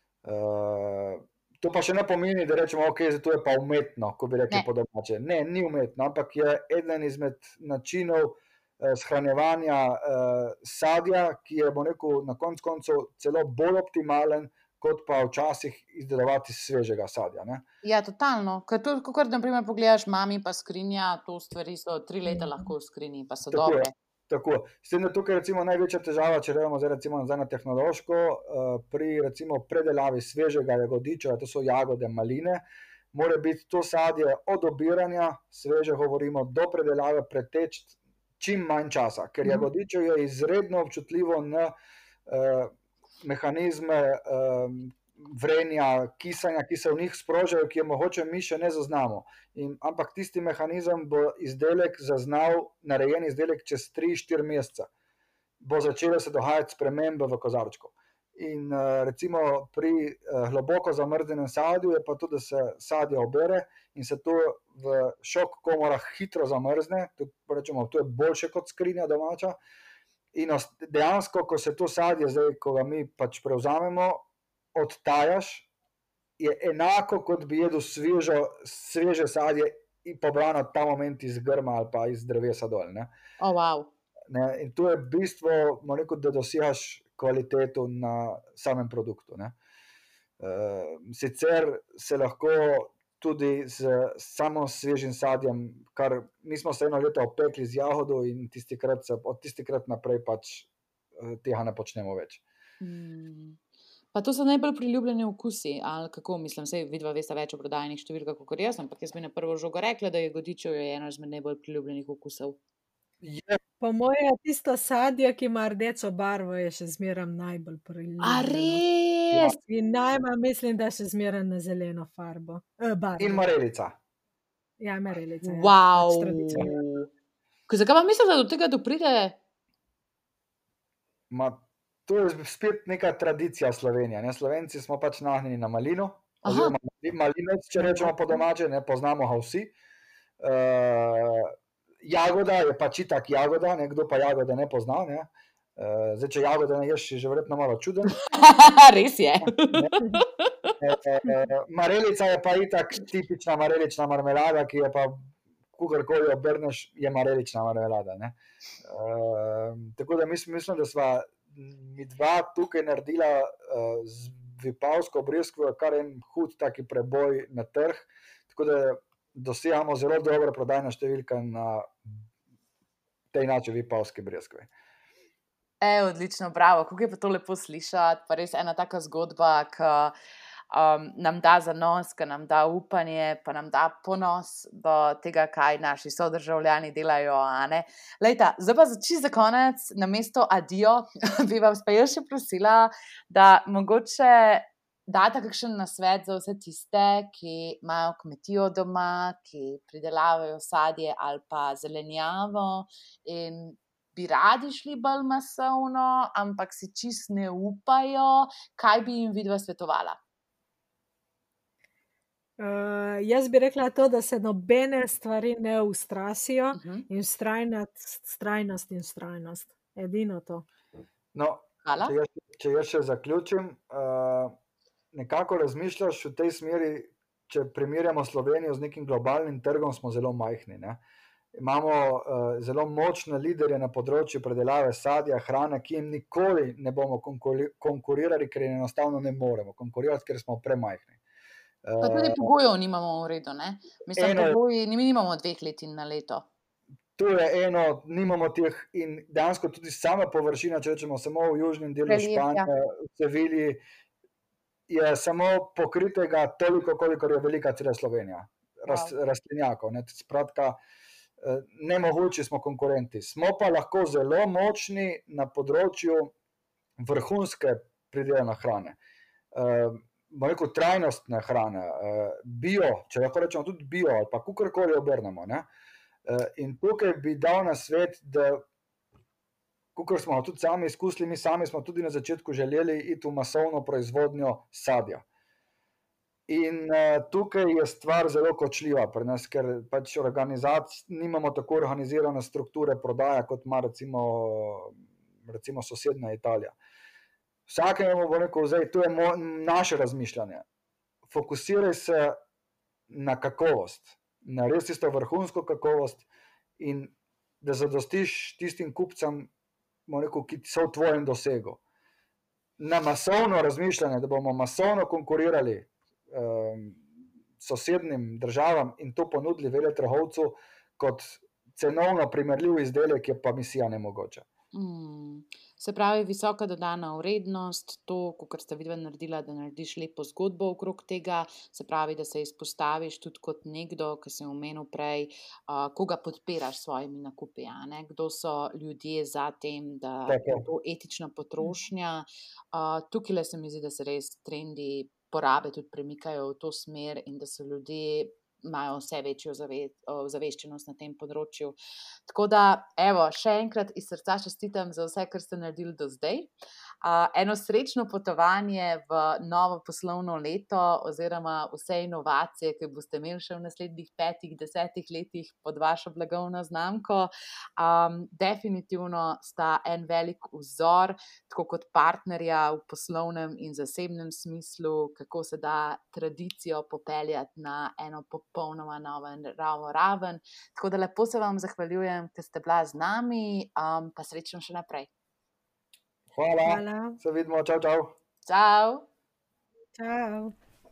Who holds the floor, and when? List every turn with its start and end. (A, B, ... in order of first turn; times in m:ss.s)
0:00.2-0:17.6 A
0:17.8-0:23.9 B
0:23.5-0:41.7 A
0:42.3-0:54.9 A
0:55.6-1:09.6 A
1:10.3-1:15.6 A
1:16.4-1:23.1 A
1:23.4-1:23.9 B
1:24.3-1:29.6 A
1:30.4-1:42.4 A
1:42.8-1:43.6 B
1:44.1-1:52.6 B
1:53.2-1:53.6 A
1:53.8-1:58.8 C
1:58.2-1:59.6 B
1:59.4-2:03.4 C
2:03.2-2:04.0 A
2:04.8-2:06.8 C
2:05.4-2:06.8 B
2:06.6-2:06.8 A
2:07.7-2:09.4 B
2:11.3-2:19.7 A
2:16.4-2:16.8 B
2:18.0-2:18.4 B
2:20.4-2:28.2 A
2:28.2-2:30.8 B
2:29.4-2:29.9 A
2:30.8-2:52.2 A
2:53.3-2:54.7 A
2:55.8-3:00.1 B
3:00.7-3:30.2 B
3:32.6-3:40.6 C
3:36.7-3:37.1 B
3:41.3-3:44.6 A
3:41.8-3:42.1 B
3:45.1-3:51.0 A
3:51.5-4:01.2 A
4:01.8-4:02.5 A
4:02.0-4:06.4 B
4:04.1-4:04.6 A
4:07.2-4:13.8 A
4:12.1-4:12.7 B
4:14.9-4:20.8 A
4:18.9-4:19.1 B
4:21.4-4:26.3 A
4:27.0-4:29.0 A
4:29.5-4:35.7 A
4:36.2-4:38.6 A
4:39.9-4:45.2 A
4:46.5-4:56.8 A
4:57.7-5:00.6 A
5:01.3-5:02.4 A
5:03.1-5:06.2 A
5:06.8-5:09.5 A
5:10.1-5:11.8 A
5:12.8-5:17.0 A
5:17.6-5:24.4 A
5:24.7-5:51.8 B
5:40.3-5:40.7 A
5:52.3-5:56.5 B
5:57.0-6:25.1 B
6:26.3-6:28.1 A
6:26.6-6:27.2 C
6:28.4-6:29.0 B
6:30.0-6:30.5 C